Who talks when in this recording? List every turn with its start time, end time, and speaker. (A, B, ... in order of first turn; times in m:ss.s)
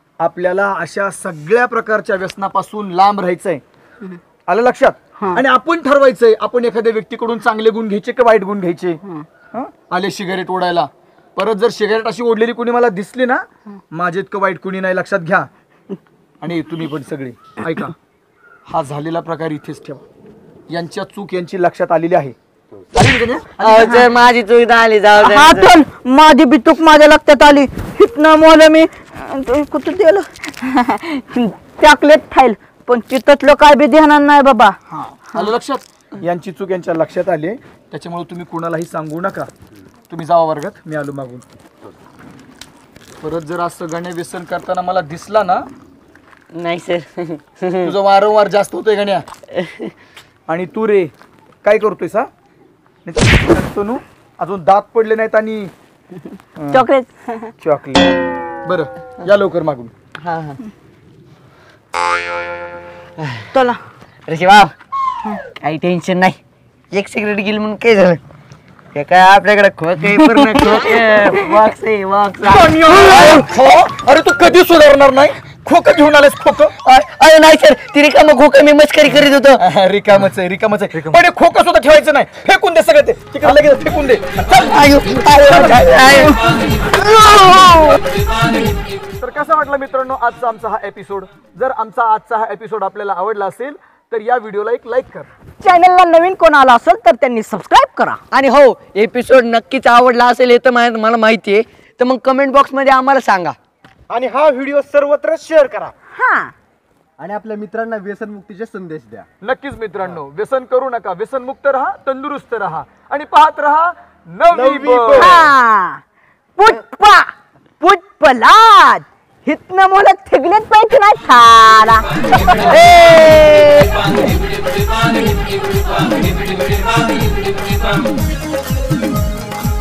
0:00.2-0:03.6 A
0:04.5-0:09.0 A
0:09.5-0:15.5 A
0:16.4-0:18.0 A
0:18.7-0:20.1 A
0:20.7-0:22.4 A
0:23.0-0:24.0 A
0:23.6-0:25.7 B
0:25.2-0:34.8 C
0:34.9-0:39.5 A
0:40.1-0:41.4 A
0:43.2-0:45.7 A
0:46.5-0:48.0 B
0:47.8-0:49.2 A
0:49.5-0:49.9 B
0:50.5-0:51.1 A
0:51.6-0:52.3 A
0:53.0-0:55.7 A
0:56.6-0:56.8 A
0:56.7-0:57.5 C
0:57.6-0:58.1 A
0:58.6-0:59.9 A
1:00.2-1:00.6 B
1:03.2-1:03.5 B
1:03.5-1:03.8 C
1:04.3-1:04.7 B
1:05.6-1:06.4 B
1:06.9-1:08.2 B
1:08.9-1:13.4 B
1:12.4-1:16.8 A
1:16.8-1:19.6 B
1:19.6-1:24.7 A
1:24.5-1:26.4 B
1:25.5-1:26.3 A
1:27.0-1:28.0 C
1:29.2-1:35.3 A
1:35.6-1:38.2 C
1:38.3-1:43.6 B
1:44.1-1:45.9 D
1:46.1-1:46.5 C
1:47.2-1:49.3 E
1:49.4-1:55.4 A
1:54.5-1:55.5 D
1:55.1-1:56.0 C
1:56.6-2:02.8 C
2:02.6-2:04.1 B